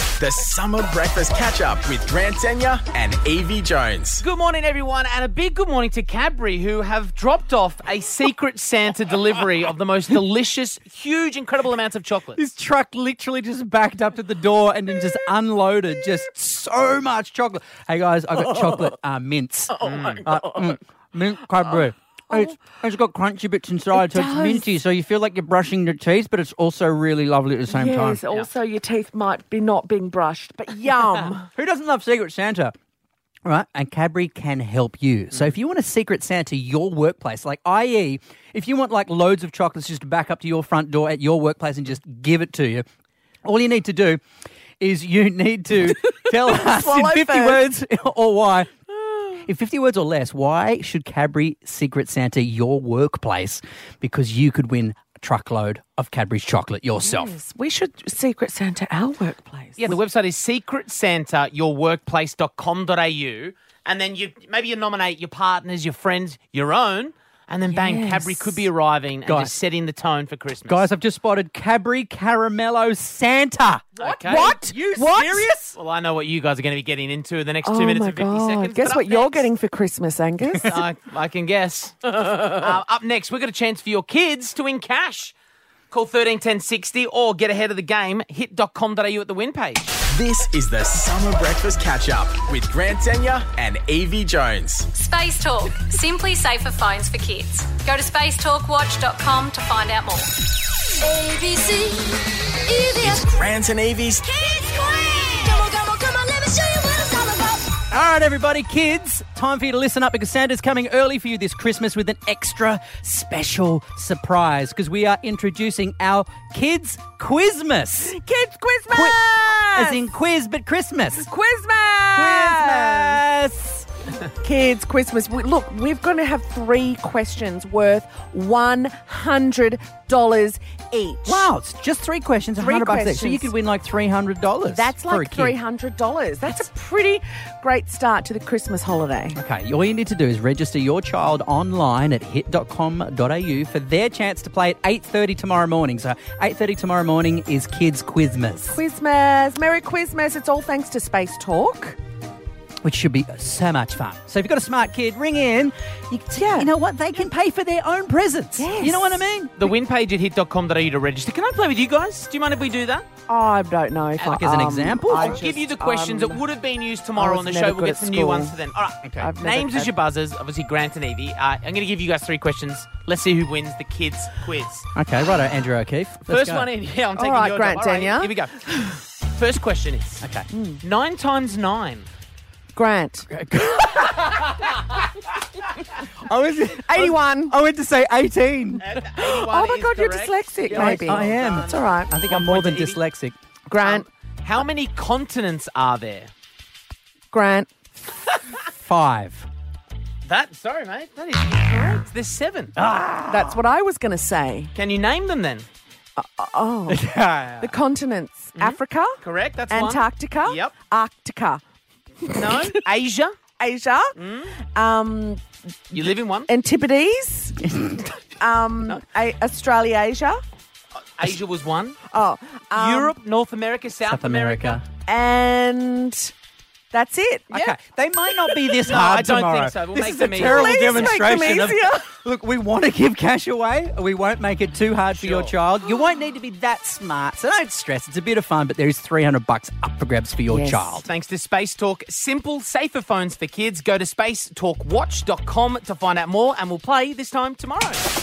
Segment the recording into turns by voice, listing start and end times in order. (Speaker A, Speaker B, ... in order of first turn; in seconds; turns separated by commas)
Speaker A: 0.2-4.2, Speaker B: 4.2-12.4, Speaker C: 12.3-28.2, Speaker B: 19.8-20.3, Speaker D: 22.3-22.6, Speaker D: 23.9-24.6, Speaker D: 27.7-31.4, Speaker C: 31.5-32.7, Speaker C: 33.4-42.9, Speaker C: 43.4-44.2, Speaker C: 44.8-48.7, Speaker D: 46.1-47.6, Speaker C: 49.3-57.3, Speaker D: 57.0-60.0, Speaker B: 59.8-70.8, Speaker D: 67.7-68.7, Speaker C: 69.2-69.5, Speaker C: 70.7-75.8, Speaker B: 74.0-79.5, Speaker D: 74.0-74.8, Speaker D: 77.6-80.8, Speaker B: 80.6-85.3, Speaker B: 85.9-90.0, Speaker A: 90.0-94.9, Speaker E: 94.9-100.3, Speaker E: 101.0-103.5, Speaker A: 103.0-104.2, Speaker E: 104.2-107.8, Speaker C: 107.9-118.2, Speaker D: 118.1-120.0, Speaker C: 118.9-121.3, Speaker D: 121.2-123.2, Speaker C: 122.1-123.9, Speaker D: 124.4-131.5, Speaker C: 131.2-135.6, Speaker D: 132.6-133.5, Speaker D: 134.7-139.4, Speaker C: 139.3-148.8, Speaker D: 148.7-152.0, Speaker C: 152.8-159.5, Speaker D: 156.3-156.7, Speaker D: 158.6-159.3, Speaker B: 159.6-163.1, Speaker D: 163.3-166.4, Speaker C: 164.2-165.4, Speaker B: 165.1-174.9, Speaker D: 167.2-168.6, Speaker D: 169.2-169.9, Speaker C: 174.9-176.7, Speaker B: 176.2-178.6, Speaker D: 177.2-178.9, Speaker B: 179.3-180.2, Speaker C: 180.2-180.5, Speaker D: 180.5-180.8, Speaker B: 180.8-182.1, Speaker D: 182.7-183.3, Speaker C: 183.3-184.8, Speaker C: 186.2-188.8, Speaker D: 186.8-187.5, Speaker B: 188.8-193.0, Speaker D: 189.0-192.1, Speaker C: 190.7-193.4, Speaker D: 193.7-194.1, Speaker B: 193.8-196.3, Speaker D: 197.3-197.9, Speaker C: 198.8-199.5, Speaker B: 200.2-202.7, Speaker C: 202.8-203.6, Speaker D: 203.3-204.7, Speaker B: 204.8-205.7, Speaker D: 206.2-207.0, Speaker C: 206.9-207.7, Speaker D: 207.6-209.2, Speaker B: 208.6-210.7, Speaker D: 209.7-211.6, Speaker D: 212.2-212.7, Speaker B: 212.3-213.3, Speaker D: 213.6-214.1, Speaker B: 214.2-214.5, Speaker D: 214.7-217.6, Speaker B: 215.9-216.5, Speaker D: 218.4-220.4, Speaker B: 221.2-222.0, Speaker D: 222.1-223.2, Speaker B: 222.8-224.8, Speaker C: 224.0-224.8, Speaker D: 225.1-226.3, Speaker D: 226.9-227.7, Speaker C: 227.5-241.1, Speaker B: 228.8-231.2, Speaker D: 229.9-232.1, Speaker B: 235.2-235.5, Speaker D: 240.5-241.0, Speaker B: 241.1-248.0